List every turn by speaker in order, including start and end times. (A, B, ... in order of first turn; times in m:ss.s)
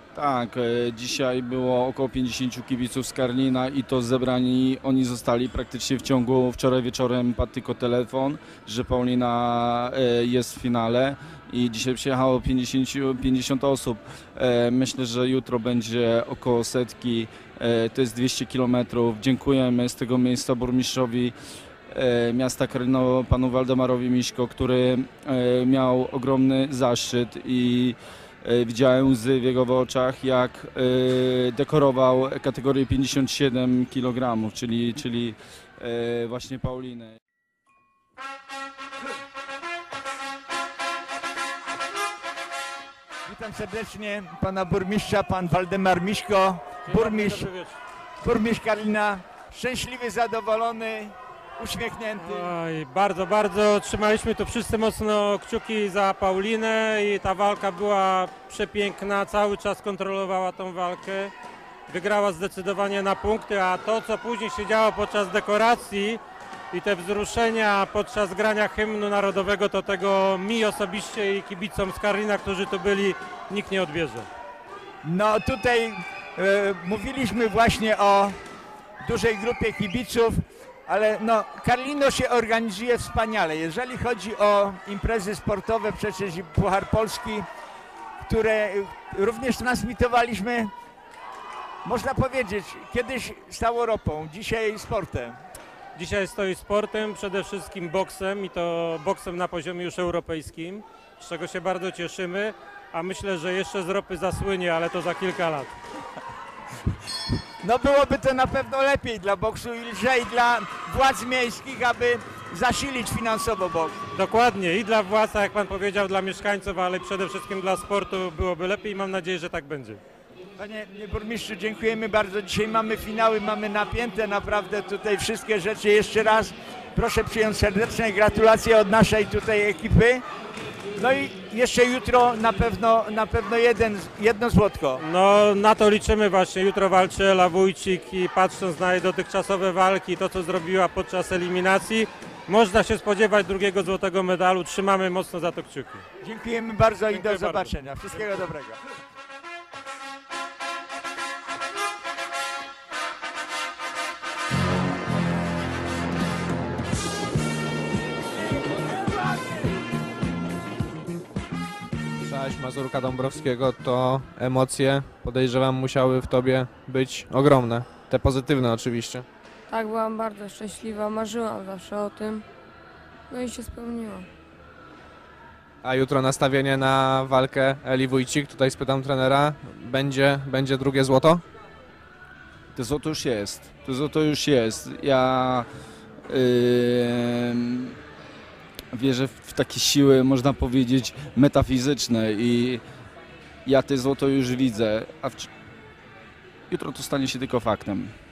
0:00.2-0:21.4 A
0:21.9-0:37.2 A
0:43.3-0:47.5 B
0:46.9-0:47.8 C
0:48.2-0:52.5 B
0:52.2-1:01.3 C
1:01.9-1:06.2 C
1:06.7-1:14.3 C
1:15.0-1:18.4 B
1:19.0-1:27.5 B
1:28.2-1:30.7 B
1:31.8-1:35.4 B
1:36.0-1:45.8 C
1:47.6-1:54.0 B
1:54.1-2:00.0 C
2:00.6-2:10.2 B
2:11.0-2:15.0 B
2:15.0-2:26.0 C
2:26.2-2:28.8 B
2:27.1-2:27.7 C
2:42.2-2:49.2 D
2:49.7-2:52.4 E
2:53.3-2:54.3 E
2:55.8-3:01.4 D
3:02.8-3:05.7 A
3:06.3-3:08.0 A
3:08.9-3:12.8 A
3:13.6-3:15.5 A
3:16.7-3:18.1 A